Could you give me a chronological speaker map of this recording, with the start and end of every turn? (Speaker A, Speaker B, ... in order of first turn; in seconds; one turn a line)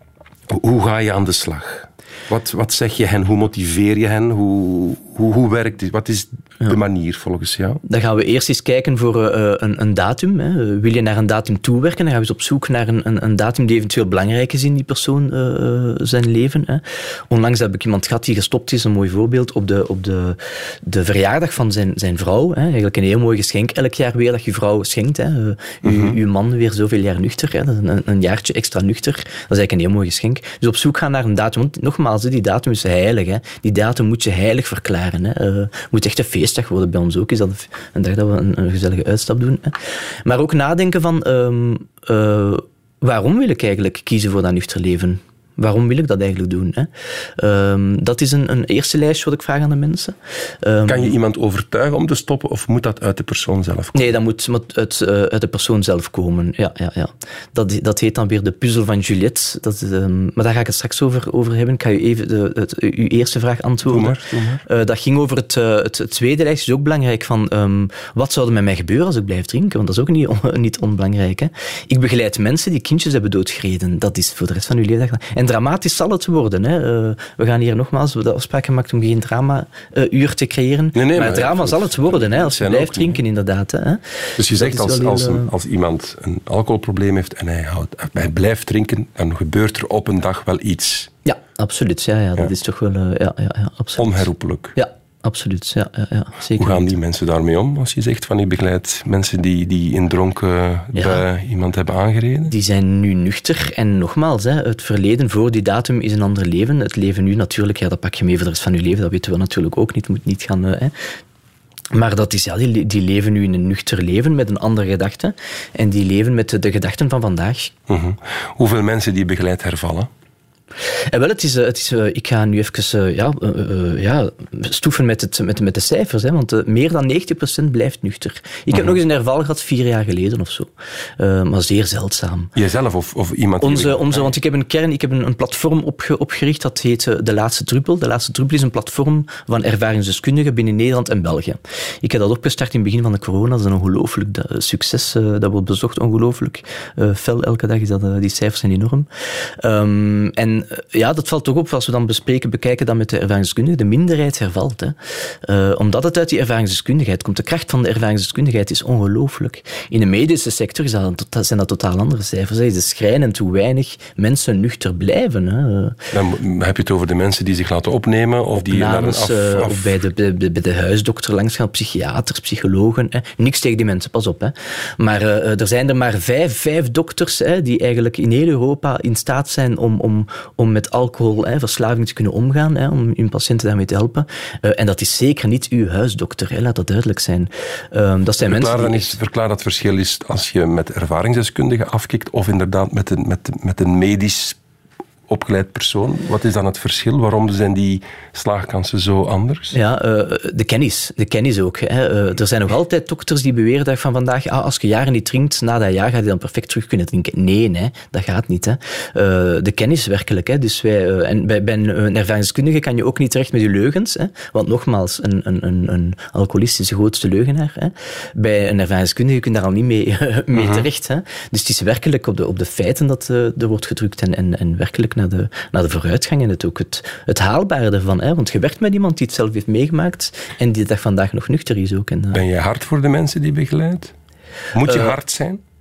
Speaker A: 0.5-7.8
Speaker B: 7.8-51.1
Speaker A: 25.8-26.2
Speaker A: 50.8-54.1
Speaker B: 53.9-85.5
Speaker A: 63.9-64.6
Speaker A: 80.9-83.2
Speaker A: 84.4-91.1
Speaker B: 91.2-96.9
Speaker A: 94.0-94.8
Speaker A: 96.6-102.5
Speaker B: 100.9-101.2
Speaker B: 102.5-110.9
Speaker B: 111.9-117.7
Speaker A: 117.9-120.1
Speaker B: 121.1-132.5
Speaker A: 132.6-134.2
Speaker B: 133.6-149.1
Speaker B: 149.6-166.0
Speaker A: 166.1-170.0
Speaker B: 168.6-189.1
Speaker A: 188.4-194.6
Speaker A: 195.3-199.8
Speaker B: 199.7-232.4
Speaker A: 220.5-220.9
Speaker A: 232.3-234.1
Speaker A: 234.7-235.6
Speaker B: 234.8-235.1